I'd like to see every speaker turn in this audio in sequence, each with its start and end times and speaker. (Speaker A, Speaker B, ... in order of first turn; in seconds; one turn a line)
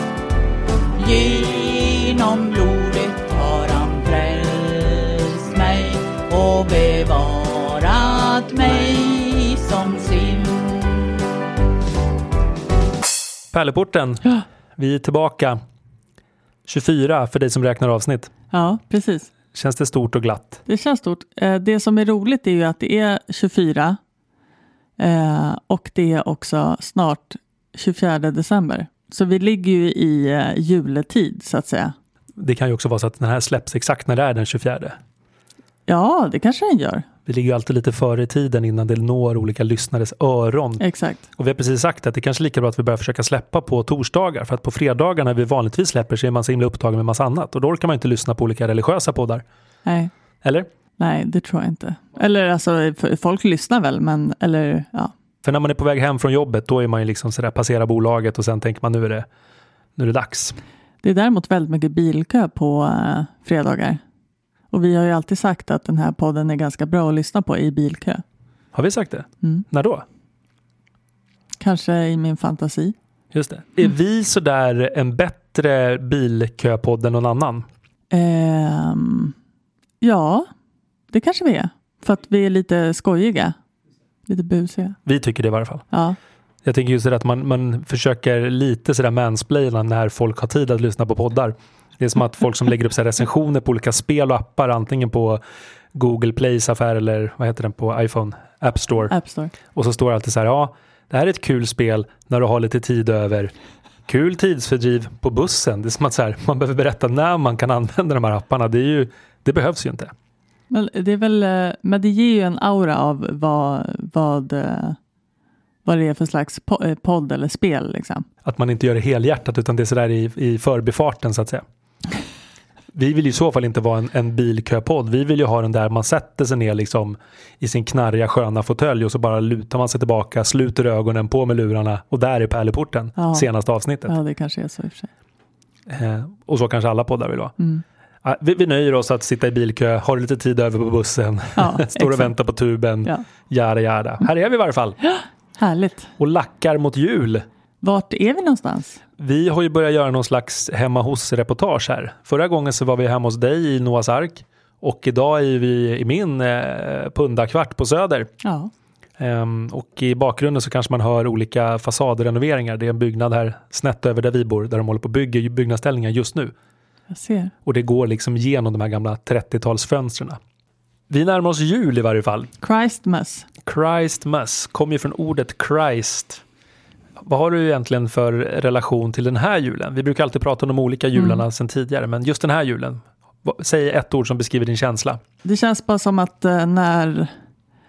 Speaker A: 0.9-11.2
Speaker B: 13.5-15.6
Speaker B: 16.7-18.3
Speaker C: 18.5-19.3
Speaker B: 19.5-20.6
Speaker C: 20.6-24.0
Speaker C: 25.0-31.9
Speaker B: 32.4-35.0
Speaker C: 35.9-37.0
Speaker B: 37.2-40.8
Speaker C: 40.8-41.2
Speaker B: 41.4-49.4
Speaker C: 49.9-50.1
Speaker C: 51.0-55.1
Speaker B: 55.4-59.3
Speaker B: 60.0-60.6
Speaker C: 61.0-64.0
Speaker C: 64.7-68.2
Speaker B: 68.7-70.0
Speaker C: 71.6-72.9
Speaker B: 73.3-77.7
Speaker C: 78.1-79.3
Speaker C: 80.0-80.5
Speaker C: 81.1-83.5
Speaker C: 84.3-85.0
Speaker B: 85.0-85.8
Speaker C: 85.9-86.2
Speaker B: 86.6-95.4
Speaker B: 95.9-99.1
Speaker C: 99.1-99.5
Speaker B: 99.6-103.5
Speaker B: 104.1-110.1
Speaker C: 110.7-115.0
Speaker C: 115.8-118.2
Speaker B: 118.4-121.6
Speaker B: 122.9-134.1
Speaker C: 133.2-133.5
Speaker C: 134.1-135.1
Speaker B: 135.9-137.5
Speaker B: 138.2-145.0
Speaker C: 141.6-142.3
Speaker C: 145.0-146.1
Speaker B: 146.2-147.4
Speaker C: 147.8-149.0
Speaker B: 149.2-158.3
Speaker C: 158.4-158.7
Speaker B: 159.2-166.5
Speaker C: 167.1-167.5
Speaker B: 167.6-170.4
Speaker B: 171.1-172.5
Speaker C: 172.6-173.5
Speaker B: 173.6-176.4
Speaker B: 177.2-185.2
Speaker C: 181.2-181.4
Speaker C: 185.4-187.3